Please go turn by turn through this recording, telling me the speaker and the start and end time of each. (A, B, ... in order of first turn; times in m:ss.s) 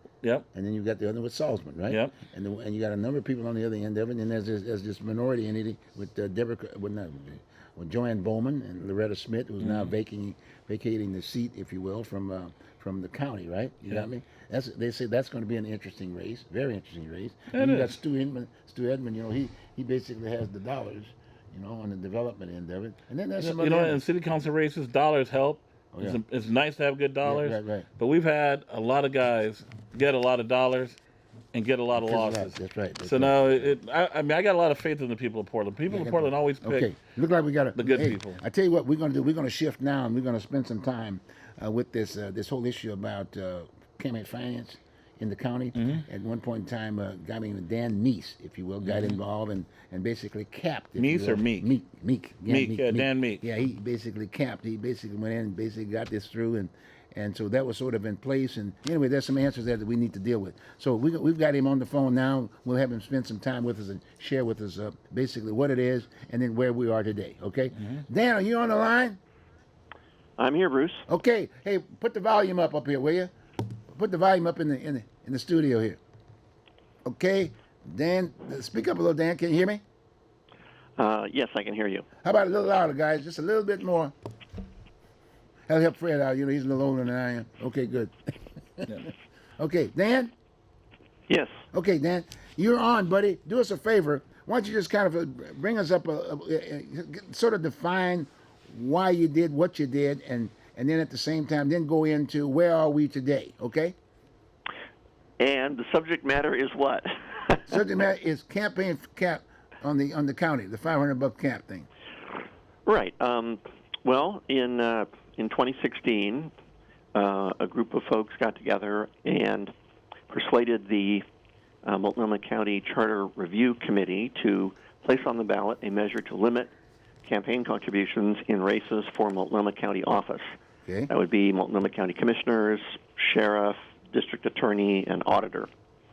0:00.5-0:24.0 A
0:01.9-0:02.2 B
0:09.6-0:09.9 B
0:17.5-0:18.0 B
0:23.4-0:31.0 B
0:25.9-0:26.2 A
0:27.2-0:27.9 A
0:31.5-0:36.9 B
0:31.9-0:33.8 A
0:35.9-1:09.2 A
0:37.8-0:38.4 B
0:45.7-0:46.0 B
0:48.8-0:49.2 B
0:51.0-0:51.7 B
0:52.5-0:53.4 B
1:10.4-1:11.0 C
1:11.1-1:13.3 A
1:13.9-1:16.0 A
1:17.0-1:19.8 A
1:21.0-1:22.0 C
1:22.2-1:24.1 A
1:25.7-1:30.3 A
1:31.7-1:44.0 A
1:45.4-1:47.7 C
1:47.6-1:51.9 A
1:52.8-1:56.5 C
1:57.1-1:59.7 C
2:00.3-2:01.2 C
2:01.8-2:06.7 C
2:07.2-2:10.5 C
2:10.8-2:11.1 A
2:11.1-2:15.7 C